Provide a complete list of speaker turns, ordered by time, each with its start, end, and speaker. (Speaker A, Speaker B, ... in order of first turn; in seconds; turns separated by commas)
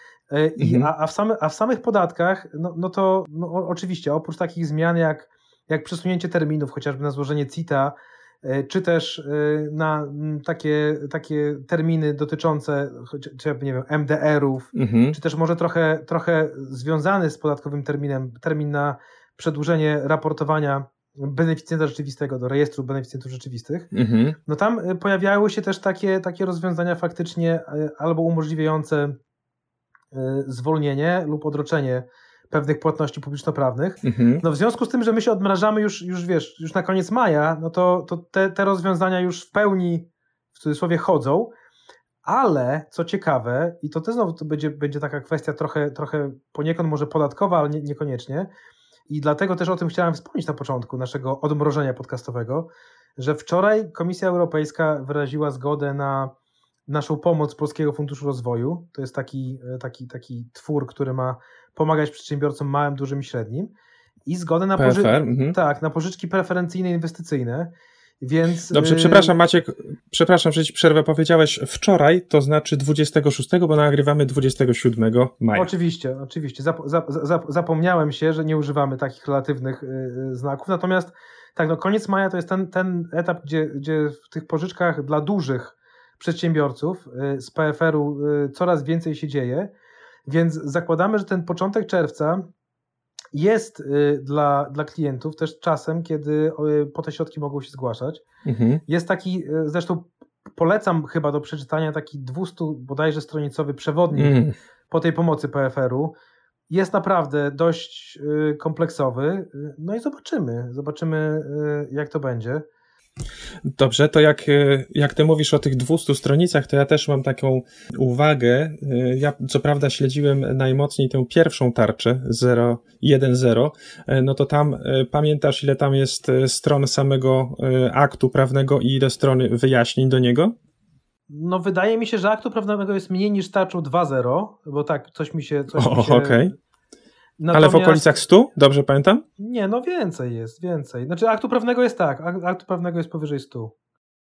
Speaker A: 0.3-23.9, Speaker B: 0.6-0.9, Speaker B: 14.7-15.2, Speaker B: 23.9-24.4, Speaker A: 24.4-29.1, Speaker A: 30.1-41.5, Speaker B: 34.0-34.4, Speaker A: 42.2-48.5, Speaker A: 49.1-56.3, Speaker A: 56.9-63.7, Speaker A: 64.3-69.3, Speaker B: 64.8-65.5, Speaker B: 68.7-75.7, Speaker A: 75.5-89.7, Speaker A: 90.3-92.5, Speaker A: 93.3-98.2, Speaker B: 98.4-98.8, Speaker A: 98.9-106.1, Speaker B: 104.1-104.5, Speaker A: 106.7-112.6, Speaker B: 113.7-130.5, Speaker A: 131.3-136.4, Speaker B: 135.7-136.5, Speaker A: 137.4-138.1, Speaker B: 137.5-139.2, Speaker A: 139.4-143.7